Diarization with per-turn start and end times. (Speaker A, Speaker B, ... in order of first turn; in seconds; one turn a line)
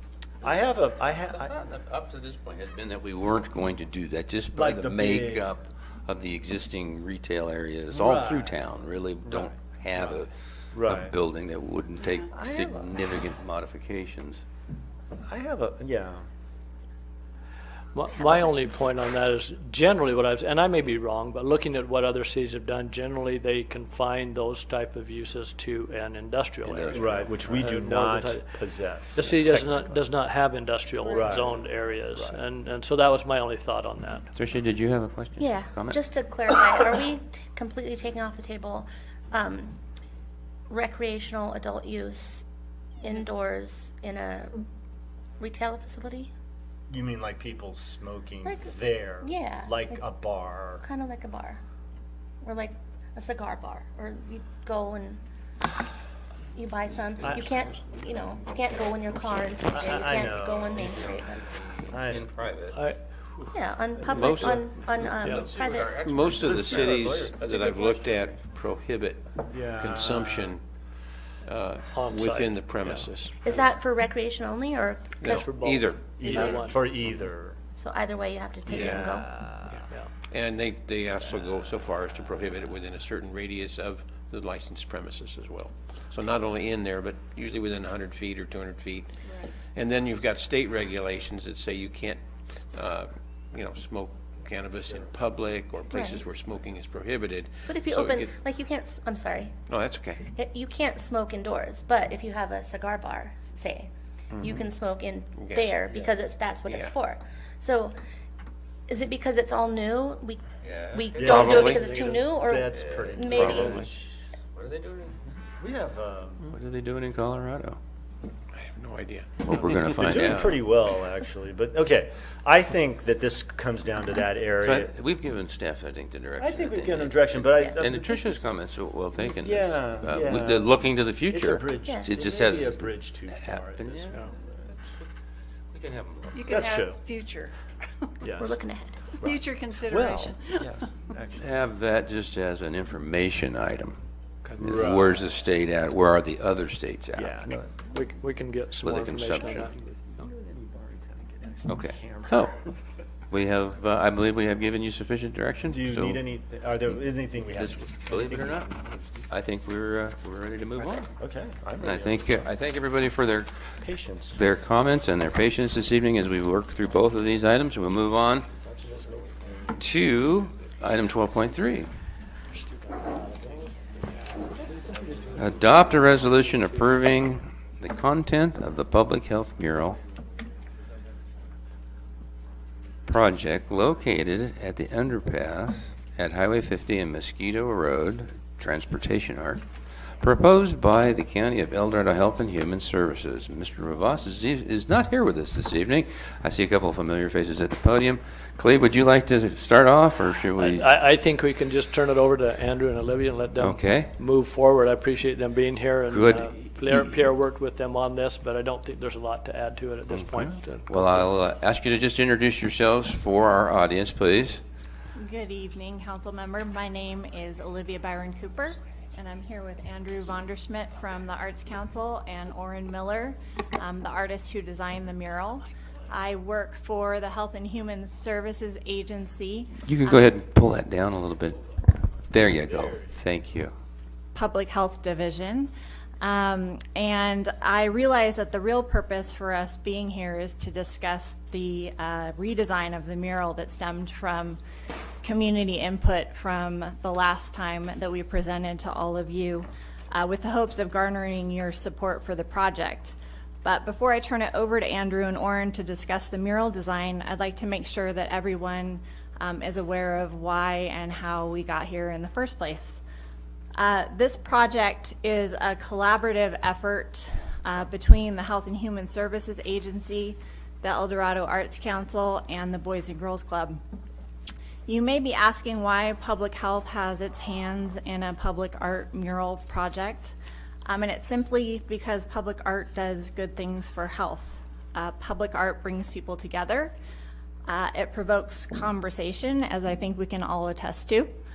Speaker A: 0.4-1.6
Speaker B: 1.3-14.4
Speaker A: 4.5-5.5
Speaker A: 7.9-8.6
Speaker A: 9.2-11.1
Speaker A: 12.3-13.2
Speaker A: 15.2-16.2
Speaker C: 17.9-34.3
Speaker D: 18.1-18.7
Speaker B: 26.6-27.3
Speaker A: 26.9-30.1
Speaker A: 31.1-32.4
Speaker B: 34.3-36.0
Speaker D: 35.4-39.8
Speaker D: 40.7-42.5
Speaker D: 43.0-44.6
Speaker D: 45.4-46.3
Speaker A: 46.9-50.9
Speaker D: 48.5-50.0
Speaker D: 50.8-51.6
Speaker D: 52.4-55.2
Speaker D: 56.5-61.6
Speaker A: 57.2-57.8
Speaker A: 59.7-61.2
Speaker B: 60.8-62.8
Speaker A: 61.9-62.3
Speaker C: 62.7-63.4
Speaker D: 63.5-66.0
Speaker E: 64.1-64.7
Speaker B: 64.8-68.4
Speaker C: 65.2-65.5
Speaker E: 65.7-70.6
Speaker A: 69.5-70.6
Speaker E: 71.4-73.4
Speaker C: 71.9-73.1
Speaker D: 73.4-75.6
Speaker E: 75.2-76.5
Speaker C: 75.3-76.8
Speaker A: 76.2-77.6
Speaker D: 77.8-79.3
Speaker A: 78.7-79.8
Speaker E: 78.7-79.0
Speaker E: 79.7-98.4
Speaker F: 89.3-89.5
Speaker D: 95.9-96.3
Speaker D: 97.7-99.6
Speaker E: 99.7-100.2
Speaker D: 100.3-108.0
Speaker E: 104.3-104.7
Speaker E: 105.4-106.9
Speaker D: 108.9-113.9
Speaker B: 110.6-113.0
Speaker A: 111.2-113.9
Speaker E: 111.3-111.8
Speaker E: 113.3-113.7
Speaker B: 113.5-114.0
Speaker B: 114.6-115.2
Speaker A: 115.6-116.5
Speaker B: 116.5-117.8
Speaker E: 118.5-120.1
Speaker B: 119.4-120.7
Speaker A: 119.5-124.9
Speaker B: 124.6-134.3
Speaker A: 126.4-128.4
Speaker D: 127.5-127.8
Speaker A: 129.4-134.3
Speaker D: 131.8-132.2
Speaker B: 135.7-136.8
Speaker F: 136.3-138.1
Speaker A: 136.5-137.0
Speaker A: 138.2-138.6
Speaker D: 138.3-139.2
Speaker A: 139.2-141.6
Speaker F: 139.2-140.8
Speaker B: 141.3-144.0
Speaker C: 144.4-144.8
Speaker A: 144.6-145.3
Speaker B: 144.6-147.3
Speaker A: 147.2-147.8
Speaker C: 147.9-150.3
Speaker B: 148.8-149.7
Speaker A: 150.2-152.3
Speaker B: 151.7-152.7
Speaker B: 153.3-156.2
Speaker A: 155.7-158.8
Speaker B: 157.4-161.1
Speaker A: 161.0-162.3
Speaker B: 161.8-168.5
Speaker A: 163.8-164.4
Speaker A: 168.6-169.7
Speaker B: 169.8-171.9
Speaker A: 174.7-175.4
Speaker B: 175.4-180.0
Speaker B: 183.1-200.9
Speaker C: 200.6-210.9
Speaker B: 203.6-204.1
Speaker B: 206.1-207.3
Speaker B: 210.1-214.6
Speaker G: 215.2-230.3
Speaker B: 229.8-231.6
Speaker B: 232.3-233.7
Speaker G: 234.3-244.6
Speaker G: 245.2-263.0
Speaker G: 263.8-273.8
Speaker G: 274.9-280.4
Speaker G: 280.9-286.9
Speaker G: 287.7-291.3